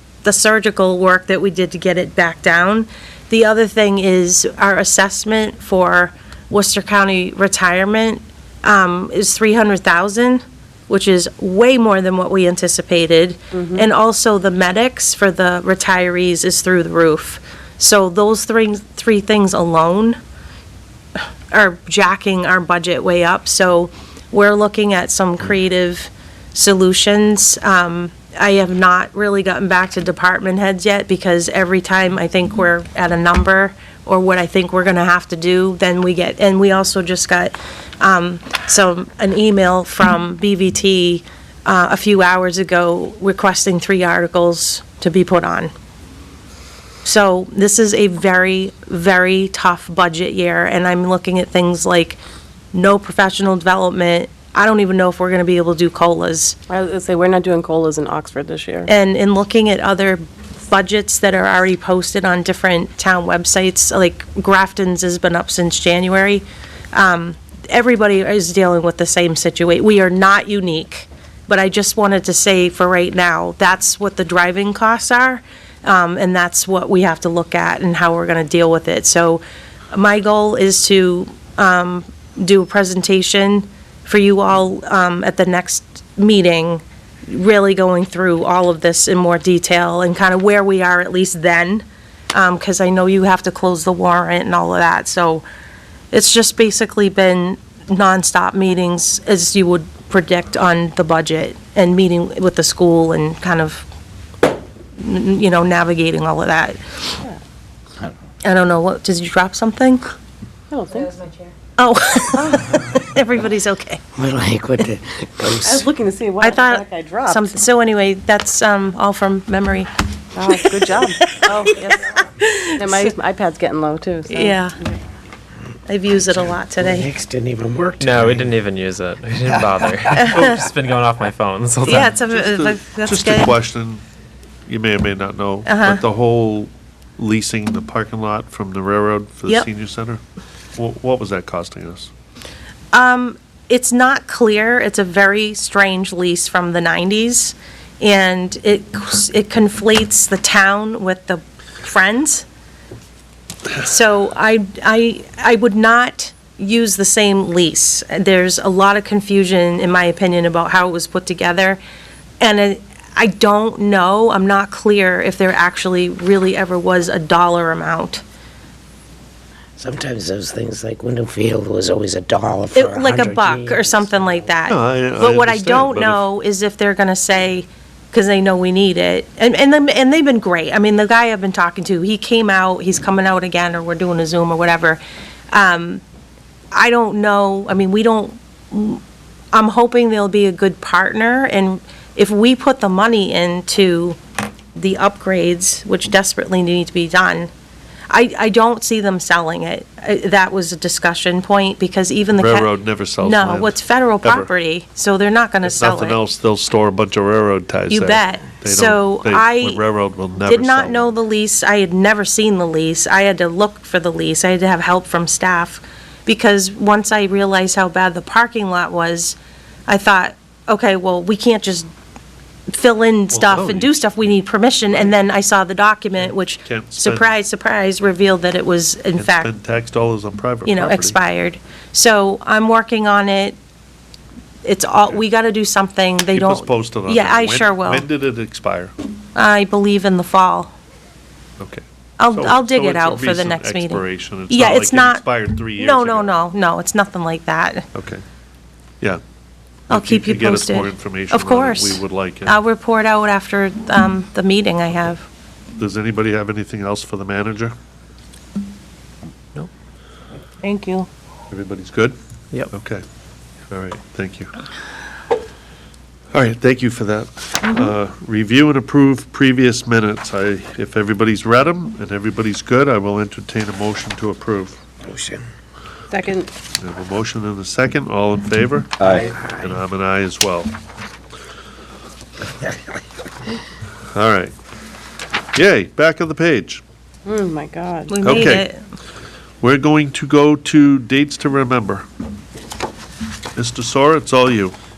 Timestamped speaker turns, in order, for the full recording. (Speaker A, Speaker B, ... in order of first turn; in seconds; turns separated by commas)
Speaker A: 0.2-20.2, Speaker B: 13.6-13.9, Speaker A: 21.5-45.7, Speaker A: 47.0-52.2, Speaker A: 52.7-56.6, Speaker B: 56.7-58.9, Speaker A: 58.9-95.5, Speaker A: 96.1-103.9, Speaker A: 105.0-107.2, Speaker A: 108.4-110.0, Speaker B: 110.7-111.3, Speaker A: 111.8-114.0, Speaker B: 112.4-112.7, Speaker C: 114.2-115.9, Speaker B: 115.6-117.6, Speaker A: 116.4-119.9, Speaker B: 120.3-122.1, Speaker A: 121.2-123.1, Speaker B: 122.8-125.0, Speaker A: 124.3-124.8, Speaker A: 125.9-127.1, Speaker C: 126.8-128.5, Speaker D: 128.0-132.2, Speaker E: 130.3-130.6, Speaker A: 130.3-130.6, Speaker A: 131.9-133.5, Speaker E: 132.0-134.0, Speaker E: 134.7-140.2, Speaker A: 135.7-136.0, Speaker E: 140.8-142.1, Speaker A: 142.9-152.5, Speaker A: 153.8-161.8, Speaker A: 162.4-168.2, Speaker C: 169.8-174.4, Speaker A: 172.8-185.0, Speaker E: 174.7-176.2, Speaker A: 185.5-186.0, Speaker A: 186.7-189.0, Speaker A: 189.5-194.2, Speaker A: 194.8-197.5, Speaker A: 198.1-206.2, Speaker E: 202.3-204.5, Speaker E: 205.6-211.1, Speaker A: 207.9-209.8, Speaker A: 210.5-221.9, Speaker A: 222.7-229.5, Speaker E: 223.3-224.3, Speaker E: 226.6-227.3, Speaker E: 229.2-231.2, Speaker A: 230.7-233.6, Speaker A: 234.7-238.1, Speaker E: 236.3-238.9, Speaker A: 239.3-240.7, Speaker E: 241.6-246.3, Speaker A: 242.2-247.9, Speaker E: 247.9-248.2, Speaker E: 249.9-252.6, Speaker A: 249.9-255.3, Speaker E: 255.8-257.7, Speaker A: 260.6-261.1, Speaker E: 261.5-262.2, Speaker E: 262.7-263.0, Speaker E: 263.7-264.6, Speaker E: 266.3-274.8, Speaker C: 275.1-275.4, Speaker B: 276.1-276.5, Speaker E: 276.8-280.7, Speaker B: 279.1-279.3, Speaker C: 279.1-279.8, Speaker C: 282.5-282.9, Speaker E: 284.1-284.5, Speaker E: 285.6-286.8, Speaker B: 287.3-288.1, Speaker A: 288.1-288.8, Speaker E: 288.2-288.7, Speaker E: 289.6-292.0, Speaker E: 293.6-294.8